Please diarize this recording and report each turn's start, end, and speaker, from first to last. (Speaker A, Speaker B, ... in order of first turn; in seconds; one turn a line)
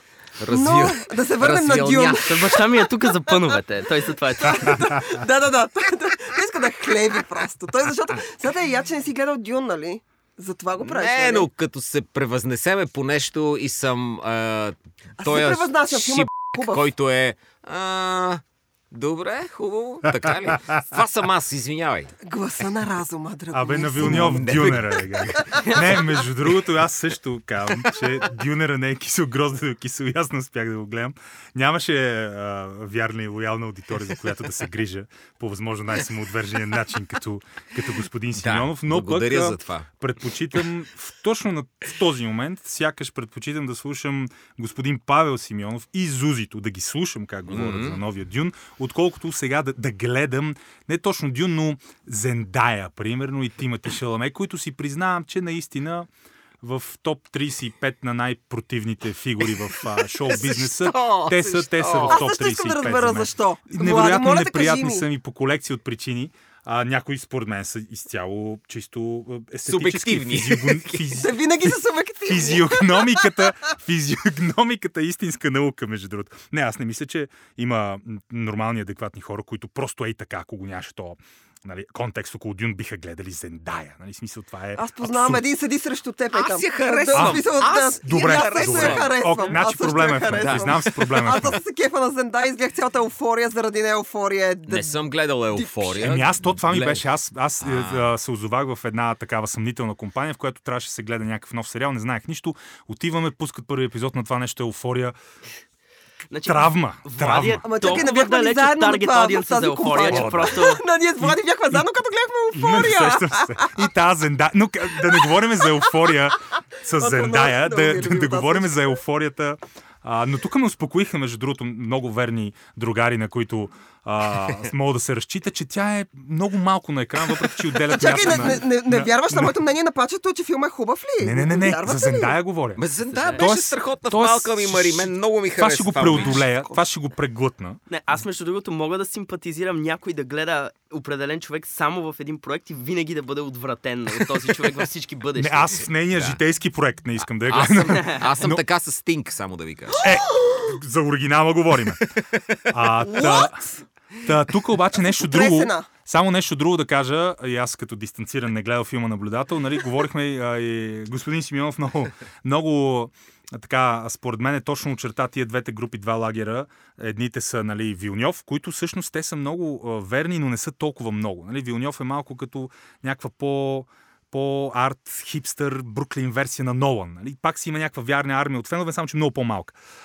Speaker A: 0.4-2.6
Speaker B: 0.5-3.4
Speaker C: 2.2-4.9
Speaker B: 4.4-11.5
Speaker A: 10.8-22.1
Speaker B: 15.2-16.9
Speaker B: 22.2-25.8
Speaker D: 23.5-56.1
Speaker A: 24.0-26.0
Speaker A: 38.4-39.9
Speaker A: 47.5-48.0
Speaker D: 56.6-85.4
Speaker A: 59.4-62.2
Speaker B: 61.3-65.0
Speaker A: 69.7-71.2
Speaker B: 71.2-73.5
Speaker B: 84.8-94.9
Speaker A: 86.3-89.6
Speaker D: 87.1-91.6
Speaker A: 90.3-91.6
Speaker A: 94.7-97.0
Speaker B: 95.5-96.0
Speaker D: 96.0-105.2
Speaker A: 97.6-98.1
Speaker C: 106.3-110.8
Speaker D: 106.5-108.0
Speaker B: 107.6-113.8
Speaker D: 110.1-110.7
Speaker D: 111.2-111.9
Speaker D: 112.5-129.6
Speaker B: 115.0-115.9
Speaker B: 117.0-118.9
Speaker B: 127.9-132.4
Speaker A: 128.0-128.5
Speaker D: 131.2-137.8
Speaker A: 132.8-136.8
Speaker C: 133.1-133.4
Speaker C: 137.9-145.8
Speaker D: 145.4-148.6
Speaker A: 146.1-146.4
Speaker A: 147.2-150.1
Speaker B: 149.9-150.8
Speaker D: 150.0-153.6
Speaker A: 152.2-152.7
Speaker B: 153.1-153.8
Speaker D: 154.2-179.8
Speaker B: 155.1-155.9